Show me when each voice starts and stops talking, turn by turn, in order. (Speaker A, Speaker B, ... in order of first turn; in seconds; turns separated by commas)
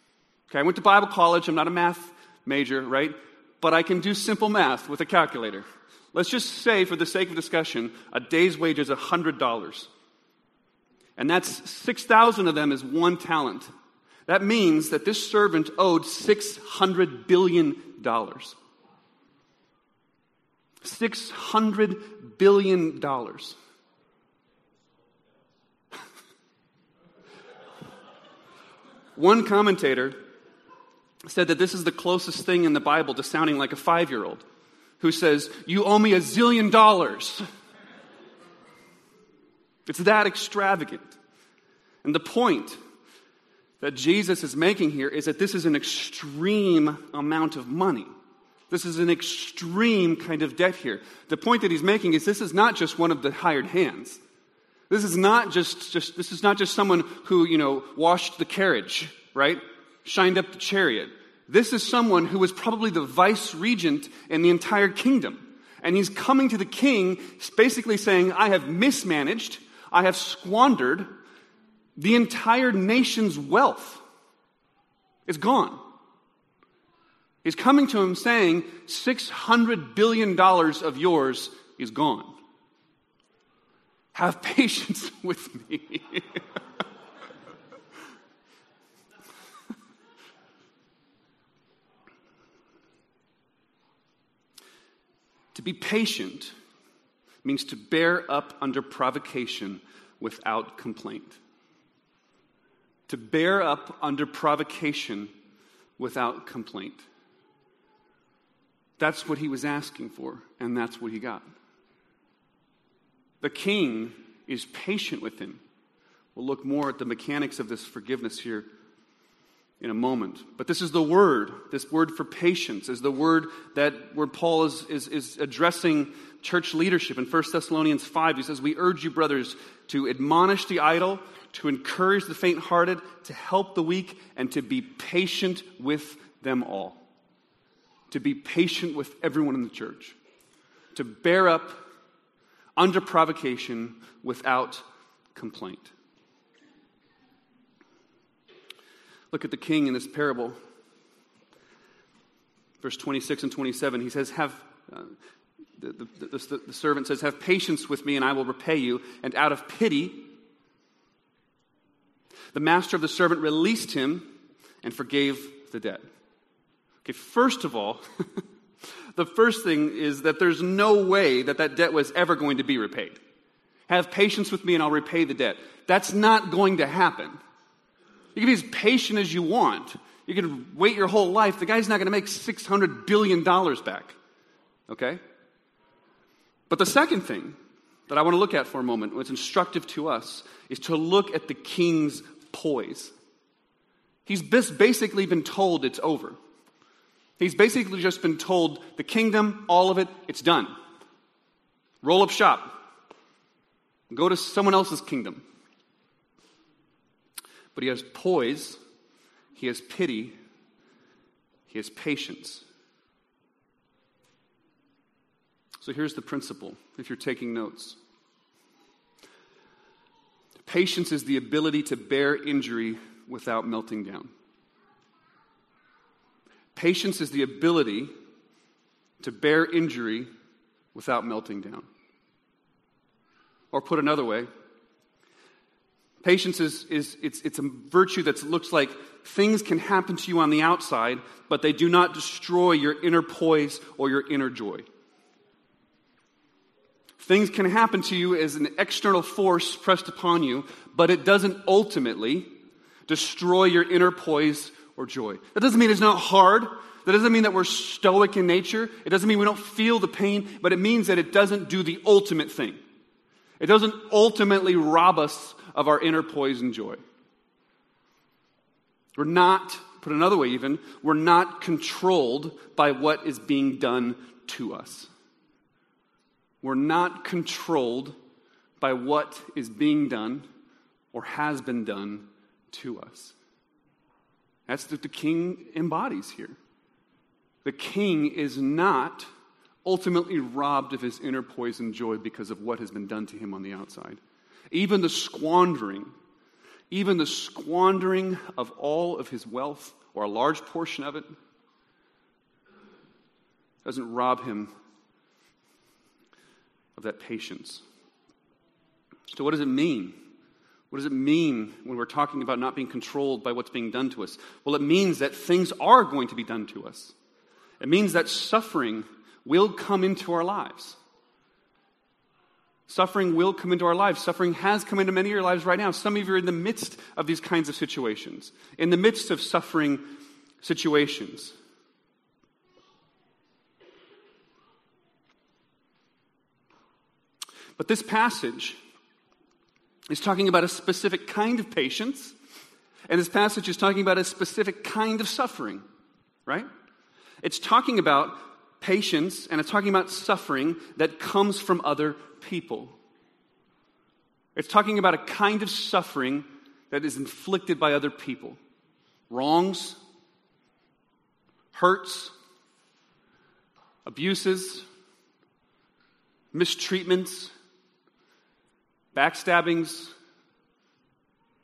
Speaker A: 0.5-9.9, Speaker A: 11.2-13.7, Speaker A: 14.3-18.6, Speaker A: 20.8-23.6, Speaker A: 29.1-30.2, Speaker A: 31.2-34.4, Speaker A: 35.0-37.5, Speaker A: 39.9-41.1, Speaker A: 42.0-42.8, Speaker A: 43.8-48.1, Speaker A: 48.7-54.2, Speaker A: 54.9-71.1, Speaker A: 72.0-74.0, Speaker A: 75.2-75.8, Speaker A: 77.4-82.4, Speaker A: 84.1-86.4, Speaker A: 95.5-96.5, Speaker A: 97.4-101.4, Speaker A: 103.1-105.3, Speaker A: 106.0-107.0, Speaker A: 109.0-111.4, Speaker A: 113.4-115.6, Speaker A: 116.3-118.7, Speaker A: 119.8-137.0, Speaker A: 138.1-140.2, Speaker A: 140.9-141.8, Speaker A: 142.8-144.8, Speaker A: 145.3-145.9, Speaker A: 149.3-150.6, Speaker A: 152.8-155.1, Speaker A: 155.8-160.3, Speaker A: 162.5-164.3, Speaker A: 164.8-166.0, Speaker A: 167.0-168.0, Speaker A: 169.1-173.2, Speaker A: 173.9-177.4, Speaker A: 178.3-184.2, Speaker A: 184.9-185.2, Speaker A: 186.7-187.6, Speaker A: 188.1-193.1, Speaker A: 194.2-196.4, Speaker A: 197.4-200.7, Speaker A: 202.0-202.8, Speaker A: 204.1-205.4, Speaker A: 207.7-208.8, Speaker A: 209.5-210.3, Speaker A: 211.7-212.6, Speaker A: 215.8-218.0, Speaker A: 220.6-224.3, Speaker A: 226.7-228.1, Speaker A: 229.2-230.3, Speaker A: 230.9-231.8, Speaker A: 233.7-234.5, Speaker A: 236.2-244.8, Speaker A: 247.2-252.5, Speaker A: 253.1-262.8, Speaker A: 263.6-267.0, Speaker A: 269.1-275.1, Speaker A: 276.6-278.1, Speaker A: 278.8-280.4, Speaker A: 281.1-283.3, Speaker A: 284.7-286.6, Speaker A: 287.6-289.3, Speaker A: 289.8-294.2, Speaker A: 294.7-296.1, Speaker A: 296.9-301.3, Speaker A: 303.8-304.7, Speaker A: 307.0-307.8, Speaker A: 309.3-310.1, Speaker A: 310.9-317.1, Speaker A: 317.8-321.0, Speaker A: 322.9-330.0, Speaker A: 330.6-331.5, Speaker A: 337.8-338.8, Speaker A: 340.1-342.3, Speaker A: 343.1-345.8, Speaker A: 347.4-353.0, Speaker A: 354.5-358.6, Speaker A: 359.3-360.0, Speaker A: 361.7-362.3, Speaker A: 364.0-364.9, Speaker A: 366.5-367.5, Speaker A: 369.1-370.1